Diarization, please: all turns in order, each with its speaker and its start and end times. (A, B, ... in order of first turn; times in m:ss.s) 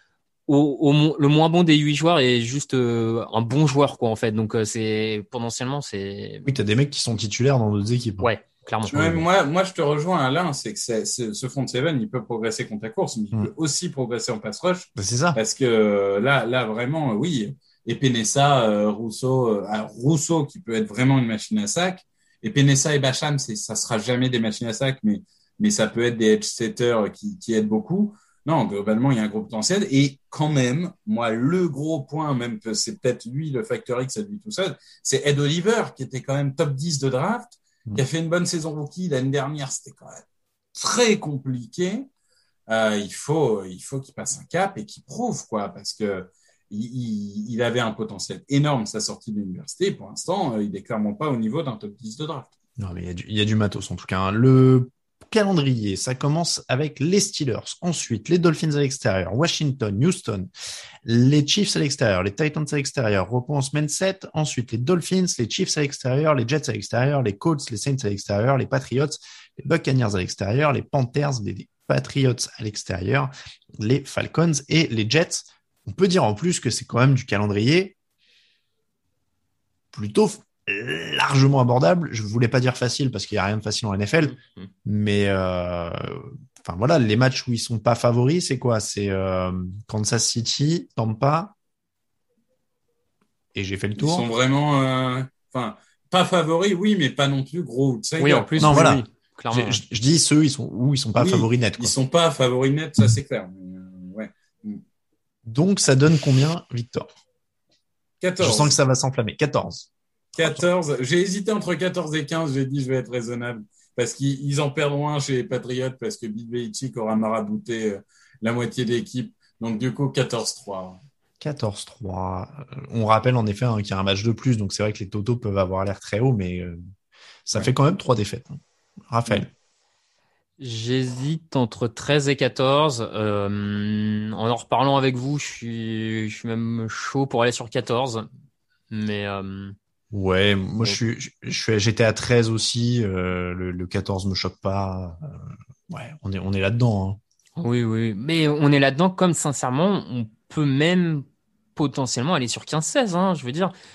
0:00.5-0:06.4 A
0:06.5-0:08.3 B
0:08.2-0:08.9 A
0:08.8-0:09.2 B
0:08.9-0:40.2 C
0:15.0-0:15.4 B
0:40.8-0:42.1 C
0:42.7-0:52.5 C
0:52.8-1:00.5 B
1:01.0-1:18.0 B
1:19.9-1:31.5 B
1:24.2-1:24.7 A
1:33.6-1:34.3 B
1:34.0-1:38.8 C
1:38.2-1:39.8 A
1:38.6-1:41.9 B
1:41.2-1:44.8 C
1:45.5-1:47.1 B
1:48.2-1:48.8 C
1:48.4-1:50.6 B
1:50.4-2:01.0 C
2:01.4-2:06.8 B
2:07.5-2:08.6 B
2:09.1-2:09.5 B
2:10.6-2:18.3 A
2:18.9-2:19.8 A
2:20.1-2:27.2 B
2:27.6-2:31.2 A
2:31.8-2:33.7 A